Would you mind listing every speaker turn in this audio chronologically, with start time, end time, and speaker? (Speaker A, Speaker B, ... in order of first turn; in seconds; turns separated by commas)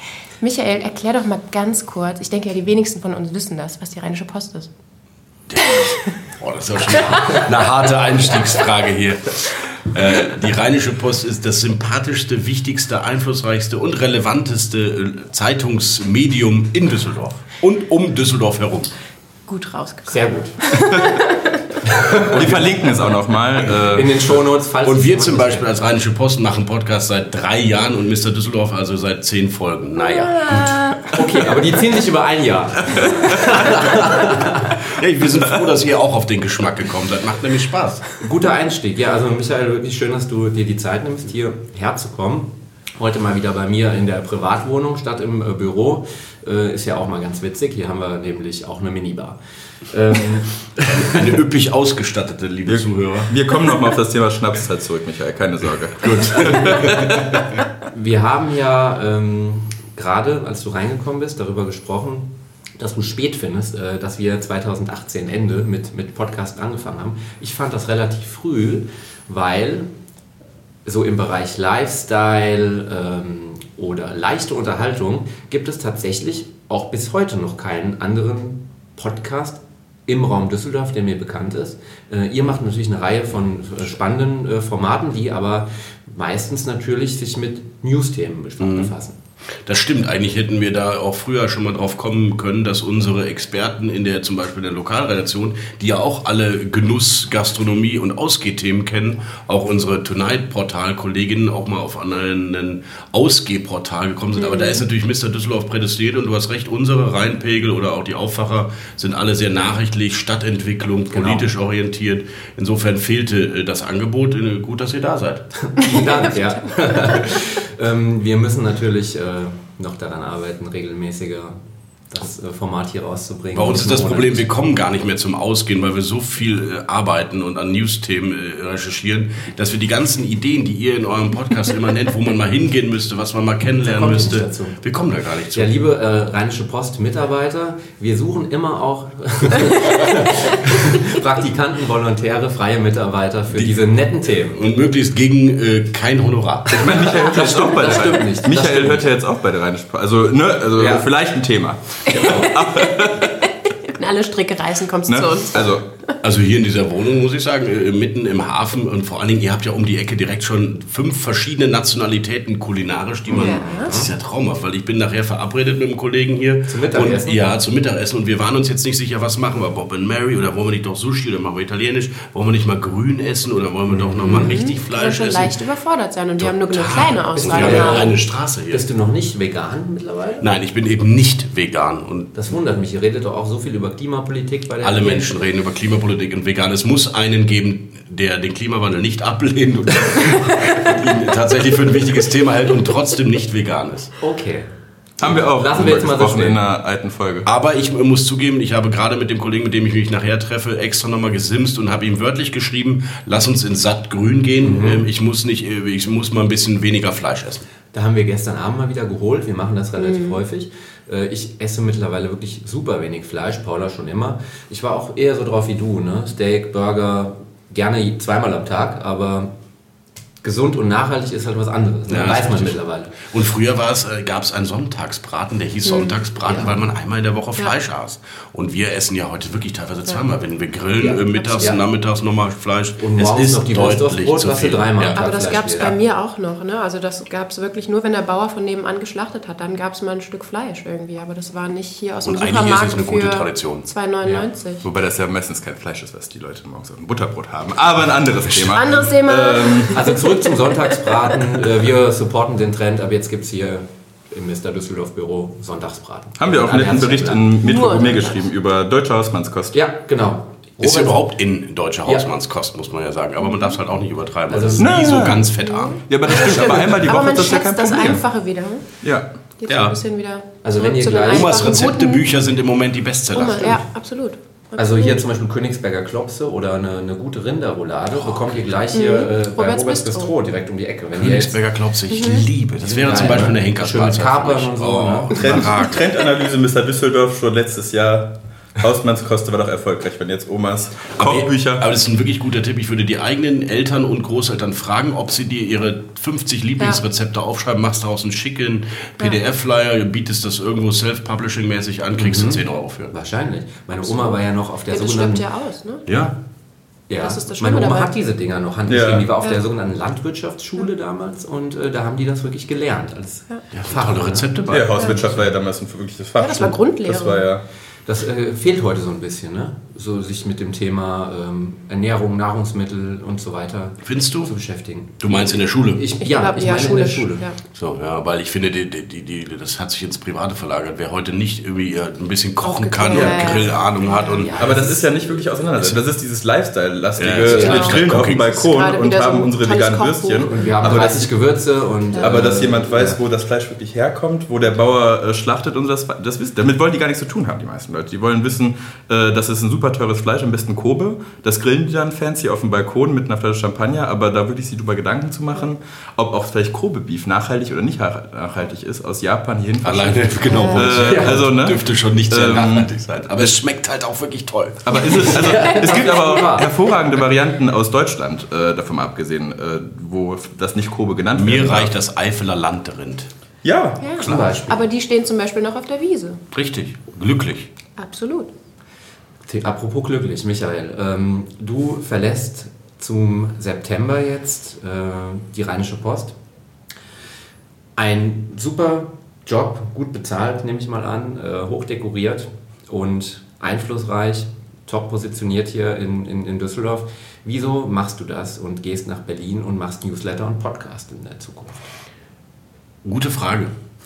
Speaker A: 0.4-4.7, Speaker B: 5.5-18.9, Speaker A: 5.6-6.1, Speaker A: 7.0-7.4, Speaker A: 19.5-21.6, Speaker C: 20.1-20.6, Speaker C: 21.9-22.9, Speaker D: 22.3-24.3, Speaker C: 23.7-25.6, Speaker B: 24.8-30.8, Speaker A: 30.0-31.0, Speaker C: 31.1-34.9, Speaker D: 33.0-33.8, Speaker B: 34.8-38.1, Speaker C: 38.2-49.4, Speaker C: 49.9-51.3, Speaker B: 51.0-53.3, Speaker D: 52.7-57.4, Speaker B: 56.0-57.0, Speaker C: 56.4-69.9, Speaker C: 70.8-89.2, Speaker B: 88.6-88.9, Speaker B: 89.7-115.5, Speaker A: 104.4-104.8, Speaker C: 111.1-111.5, Speaker C: 115.6-121.6, Speaker A: 116.8-117.2, Speaker C: 122.1-124.5, Speaker B: 123.5-135.7, Speaker C: 133.8-134.8, Speaker C: 135.5-144.6, Speaker B: 143.5-143.8, Speaker B: 144.5-147.0, Speaker C: 146.7-149.1, Speaker D: 146.8-153.5, Speaker A: 147.0-147.5, Speaker C: 150.8-151.1, Speaker C: 152.1-152.5, Speaker A: 152.2-153.1, Speaker A: 153.7-156.1, Speaker D: 155.1-155.8, Speaker B: 156.2-175.6, Speaker C: 163.3-164.1, Speaker A: 163.3-163.9, Speaker C: 166.7-167.5, Speaker C: 173.9-174.6, Speaker A: 174.3-178.2, Speaker B: 176.4-178.8, Speaker C: 177.4-180.5, Speaker B: 180.4-182.4, Speaker C: 182.3-185.3, Speaker B: 184.8-194.1, Speaker C: 190.5-191.0, Speaker C: 194.2-194.7, Speaker D: 195.2-197.5, Speaker C: 195.2-196.6, Speaker B: 197.4-207.7, Speaker C: 204.6-205.1, Speaker C: 207.9-219.5, Speaker A: 210.0-210.3, Speaker C: 220.4-223.2, Speaker B: 222.1-235.2, Speaker A: 225.9-226.2, Speaker C: 226.5-226.8, Speaker C: 231.0-231.8, Speaker C: 233.0-236.0, Speaker A: 235.2-244.8, Speaker B: 242.2-243.9, Speaker D: 244.8-250.0, Speaker A: 248.7-251.1, Speaker C: 249.9-257.6, Speaker D: 256.4-259.8, Speaker A: 257.6-258.4, Speaker C: 259.7-261.2, Speaker B: 260.8-266.0, Speaker C: 264.5-265.5, Speaker D: 264.8-265.5, Speaker A: 265.6-268.8, Speaker D: 266.1-268.2, Speaker D: 269.0-269.3, Speaker A: 269.6-272.3, Speaker B: 269.7-270.0, Speaker C: 270.6-271.8, Speaker B: 271.3-273.8, Speaker A: 273.3-275.2, Speaker C: 274.8-281.6, Speaker B: 278.1-278.7, Speaker A: 278.9-280.3, Speaker B: 281.2-286.0, Speaker A: 282.1-282.4, Speaker C: 282.8-285.7, Speaker D: 285.3-291.9, Speaker B: 291.2-303.1, Speaker C: 302.2-305.4, Speaker A: 304.1-306.1, Speaker B: 306.1-306.4, Speaker C: 307.1-315.5, Speaker A: 307.2-308.1, Speaker D: 308.9-309.3, Speaker B: 313.7-314.9, Speaker D: 314.7-317.6, Speaker A: 314.9-315.2, Speaker A: 316.4-317.4, Speaker C: 318.1-325.3, Speaker B: 324.1-324.5, Speaker B: 325.2-326.1, Speaker C: 326.0-327.5, Speaker A: 326.2-327.6, Speaker B: 327.7-334.8, Speaker A: 332.6-334.5, Speaker D: 333.1-333.6, Speaker C: 334.4-335.4, Speaker D: 334.6-341.3, Speaker B: 337.2-338.5, Speaker C: 337.5-337.9, Speaker A: 337.5-340.8, Speaker C: 340.5-343.2, Speaker A: 342.1-342.5, Speaker D: 342.2-363.6, Speaker B: 359.8-365.4, Speaker A: 360.4-360.9, Speaker C: 360.9-361.5, Speaker D: 364.8-371.9, Speaker A: 365.0-366.4, Speaker C: 365.1-366.7, Speaker B: 371.4-373.3, Speaker D: 373.6-374.1, Speaker A: 374.0-376.4, Speaker B: 374.2-374.7, Speaker C: 374.2-374.9, Speaker B: 376.5-377.7, Speaker A: 378.0-378.5, Speaker C: 379.5-386.4, Speaker C: 388.0-401.9, Speaker B: 403.0-403.7